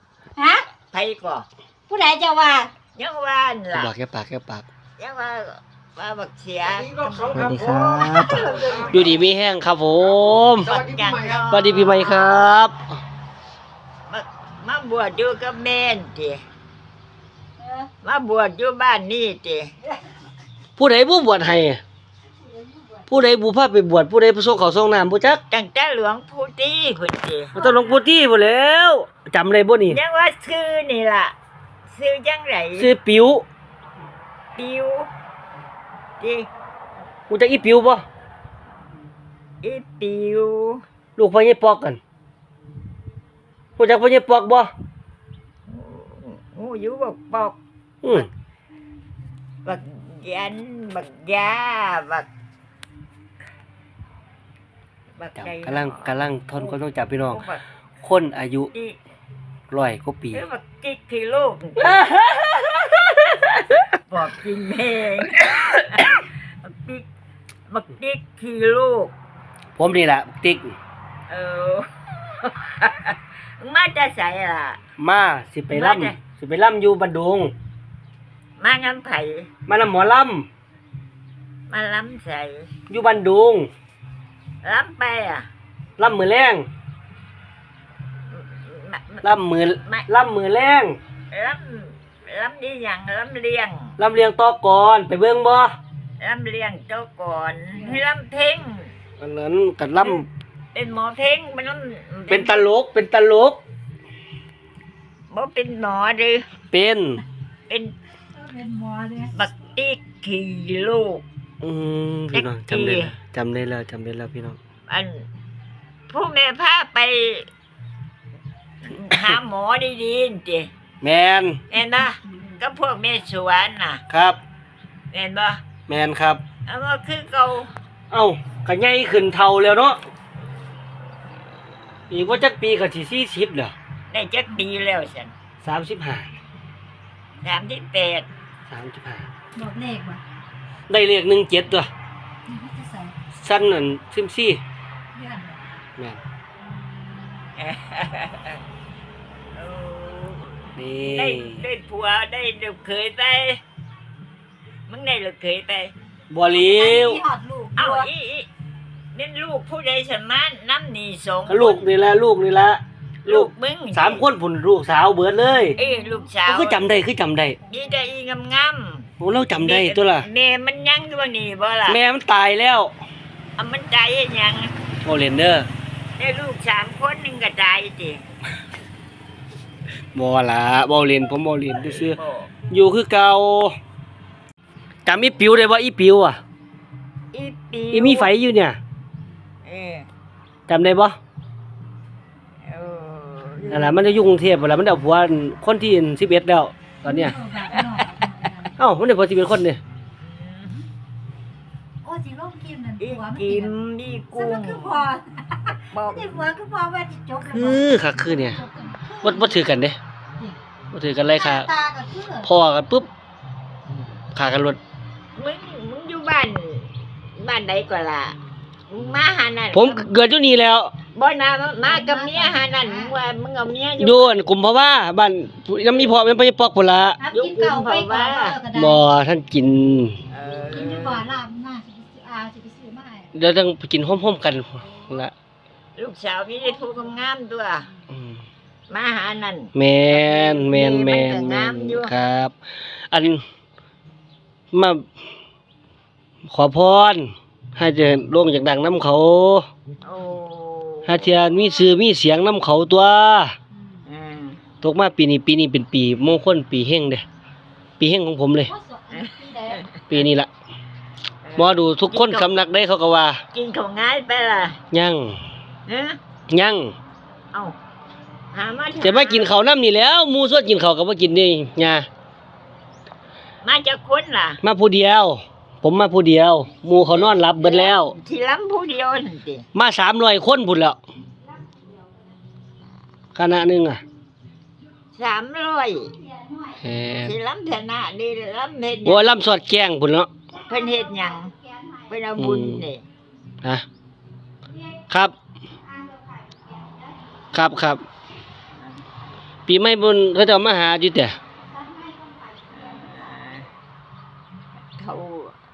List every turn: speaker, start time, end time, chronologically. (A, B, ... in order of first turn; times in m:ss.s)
0:00.4-0:00.7 A
0:00.8-0:01.5 B
0:01.9-0:02.7 A
0:02.9-0:03.9 B
0:03.7-0:04.7 C
0:05.0-0:09.1 B
0:07.4-0:10.7 C
0:10.6-0:12.2 B
0:11.5-0:12.8 C
0:14.1-0:16.4 B
0:17.6-0:17.9 A
0:18.0-0:19.7 B
0:20.8-0:21.8 C
0:22.5-0:23.0 A
0:23.1-0:25.4 C
0:25.5-0:27.5 B
0:27.6-0:30.0 C
0:27.6-0:28.0 A
0:29.9-0:31.4 B
0:31.9-0:32.9 B
0:32.8-0:33.4 C
0:34.6-0:35.1 B
0:36.2-0:36.5 B
0:37.3-0:38.0 C
0:39.6-0:40.8 B
0:41.2-0:42.0 C
0:43.8-0:44.7 C
0:45.7-0:47.6 B
0:48.0-0:48.3 C
0:49.6-0:52.3 B
0:55.2-0:56.8 B
0:55.4-0:57.4 C
0:57.3-0:57.6 B
0:58.0-0:58.7 C
0:58.7-0:59.0 B
0:59.7-1:00.4 C
1:00.3-1:02.2 B
1:01.8-1:03.5 C
1:04.0-1:07.1 B
1:07.7-1:09.1 B
1:09.8-1:10.8 C
1:11.3-1:14.8 B
1:15.0-1:17.5 C
1:15.7-1:16.2 B
1:18.6-1:19.5 B
1:19.7-1:20.5 C
1:21.7-1:22.7 B
1:22.9-1:23.7 C
1:24.6-1:25.5 B
1:26.0-1:26.6 C
1:28.3-1:29.3 B
1:29.2-1:31.0 C
1:31.3-1:34.0 B
1:34.0-1:35.7 C
1:36.2-1:38.9 B
1:39.2-1:40.3 C
1:40.7-1:42.7 B
1:42.3-1:43.6 C
1:45.3-1:46.5 B
1:46.7-1:47.2 C
1:47.7-1:48.0 B
1:48.4-1:49.3 A
1:49.3-1:51.2 B
1:51.6-1:54.6 C
1:52.3-1:53.2 B
1:54.9-1:55.3 B
1:56.1-1:57.5 B
1:58.8-2:00.7 B
2:01.0-2:01.6 C
2:01.7-2:04.0 B
2:04.1-2:04.4 C
2:05.1-2:05.6 B
2:05.9-2:06.4 C
2:06.7-2:07.7 B
2:08.1-2:10.0 C
2:12.1-2:13.7 C
2:14.1-2:15.3 B
2:15.6-2:16.3 C
2:17.4-2:18.3 B
2:18.7-2:19.3 C
2:19.6-2:20.2 A
2:20.9-2:21.9 C
2:22.5-2:23.2 A
2:23.4-2:24.6 C
2:25.2-2:25.6 A
2:27.6-2:28.6 B
2:29.5-2:33.6 B
2:30.8-2:31.6 C
2:34.9-2:35.9 B
2:36.3-2:37.2 C
2:36.7-2:38.1 A
2:37.8-2:38.5 B
2:39.1-2:41.9 B
2:41.5-2:45.8 C
2:43.2-2:44.2 B
2:45.8-2:46.9 B
2:46.5-2:47.6 C
2:47.7-2:52.0 B
2:49.2-2:50.3 C
2:51.9-2:52.9 C
2:53.6-2:54.7 B
2:55.0-2:55.7 C
2:56.2-2:58.2 B
3:00.2-3:02.2 C
3:01.8-3:02.5 B
3:02.7-3:03.8 C
3:05.1-3:06.4 C
3:07.3-3:08.3 B
3:07.9-3:08.8 C
3:09.6-3:10.1 B
3:10.7-3:11.2 C
3:12.7-3:14.3 B
3:13.7-3:17.4 C
3:17.0-3:18.7 A
3:17.7-3:18.6 B
3:18.8-3:19.8 C
3:20.2-3:20.8 B
3:22.0-3:23.7 A
3:23.0-3:25.1 B
3:24.4-3:29.6 A
3:25.9-3:26.5 B
3:27.4-3:28.6 C
3:29.2-3:30.0 C
3:30.9-3:31.7 C
3:31.3-3:32.5 A
3:32.4-3:33.1 C
3:34.4-3:34.8 C
3:35.4-3:38.4 B
3:38.9-3:40.1 B
3:39.7-3:40.9 C
3:41.1-3:44.4 B
3:41.9-3:43.1 A
3:44.0-3:47.2 C
3:47.2-3:49.0 A
3:47.3-3:48.6 B
3:48.7-3:50.2 C
3:50.3-3:51.3 B
3:50.7-3:53.3 A
3:53.3-3:55.3 C
3:56.0-3:57.9 B
3:58.1-3:58.4 C
3:58.9-4:02.1 B
3:59.8-4:02.5 C
4:03.1-4:03.4 C
4:04.7-4:05.0 C
4:06.5-4:09.7 C
4:10.0-4:11.5 B
4:11.1-4:13.5 C
4:14.1-4:14.6 B
4:14.8-4:17.2 C
4:18.0-4:18.7 C
4:18.7-4:19.9 A
4:19.1-4:20.2 B
4:20.1-4:20.5 C
4:21.4-4:22.5 B
4:21.6-4:23.4 C
4:23.5-4:24.8 B
4:24.9-4:25.4 C
4:25.9-4:26.2 B
4:26.5-4:26.9 C
4:28.5-4:29.5 B
4:29.0-4:32.1 C
4:33.6-4:34.6 B
4:34.6-4:38.1 C
4:37.5-4:39.7 B
4:39.8-4:41.0 C
4:43.3-4:44.0 C
4:45.1-4:46.2 B
4:46.4-4:46.7 A
4:46.8-4:47.3 C
4:47.2-4:49.4 B
4:49.0-4:50.3 C
4:50.7-4:53.0 B
4:50.9-4:52.0 A
4:52.4-4:52.8 C
4:55.8-4:57.2 A
4:57.5-4:58.0 C
4:59.7-5:01.4 C
5:01.7-5:03.0 A
5:02.7-5:03.7 B
5:05.0-5:05.6 B